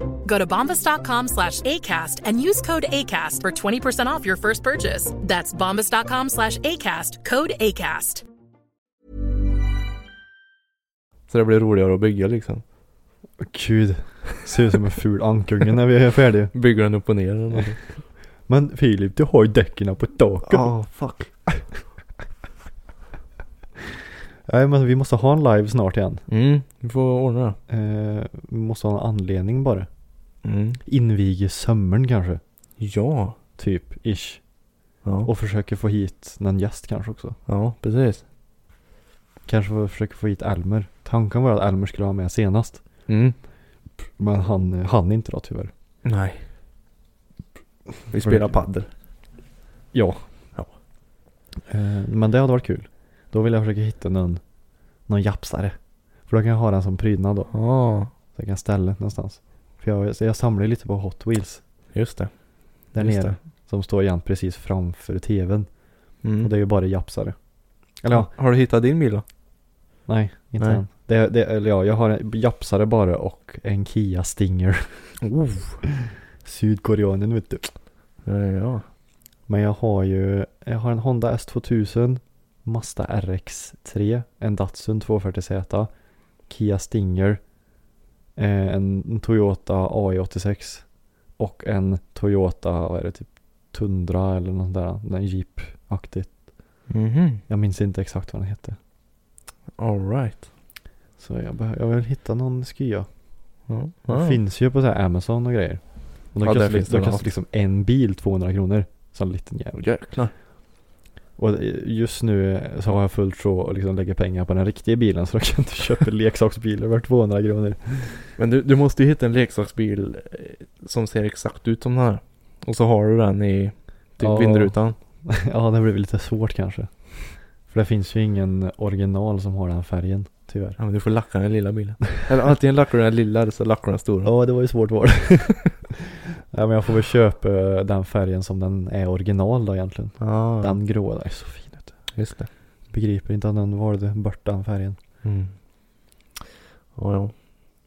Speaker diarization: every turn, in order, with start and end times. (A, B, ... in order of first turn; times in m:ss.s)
0:00.2-0:08.2 A
0:11.3-0:12.6 B
0:13.4-0:16.5 C
0:16.5-0:17.8 B
0:18.5-0:20.7 C
0:20.4-0:21.3 B
0:24.5-0:26.2 C
0:26.3-0:27.6 B
0:27.7-0:29.9 C
0:30.4-0:30.8 B
0:30.8-0:32.4 C
0:32.8-0:33.4 B
0:33.6-0:34.4 C
0:35.0-0:35.3 B
0:35.2-0:37.4 C
0:37.5-0:38.2 B
0:39.4-0:42.8 C
0:43.1-0:43.4 B
0:44.2-0:45.7 C
0:46.0-0:46.4 B
0:48.1-0:48.9 B
0:48.1-0:48.6 C
0:49.9-0:50.2 C
0:51.7-0:54.4 C
0:55.1-0:55.8 C
0:56.3-0:57.5 C
0:57.5-0:58.1 B
0:58.3-1:01.6 C
1:01.9-1:02.3 B
1:02.9-1:05.7 C
1:02.9-1:03.4 B
1:06.2-1:06.5 B
1:06.4-1:07.3 C
1:08.0-1:08.3 C
1:08.1-1:09.2 B
1:10.1-1:15.1 C
1:15.2-1:15.8 B
1:16.0-1:17.7 C
1:18.2-1:18.8 B
1:19.5-1:25.9 C
1:26.5-1:27.4 C
1:28.4-1:30.8 C
1:31.4-1:36.4 C
1:36.9-1:37.4 B
1:37.5-1:38.8 C
1:39.8-1:40.5 B
1:41.2-1:43.1 C
1:43.7-1:44.4 B
1:44.1-1:45.8 C
1:46.3-1:49.8 C
1:46.4-1:47.3 B
1:49.7-1:50.3 B
1:51.4-1:58.2 C
1:58.4-2:05.0 B
2:04.2-2:04.8 C
2:05.3-2:06.9 C
2:07.7-2:10.8 C
2:10.8-2:14.3 B
2:14.2-2:15.8 C
2:16.5-2:22.0 C
2:20.2-2:20.8 B
2:22.2-2:22.5 B
2:22.9-2:25.0 C
2:25.2-2:25.5 B
2:27.0-2:27.3 B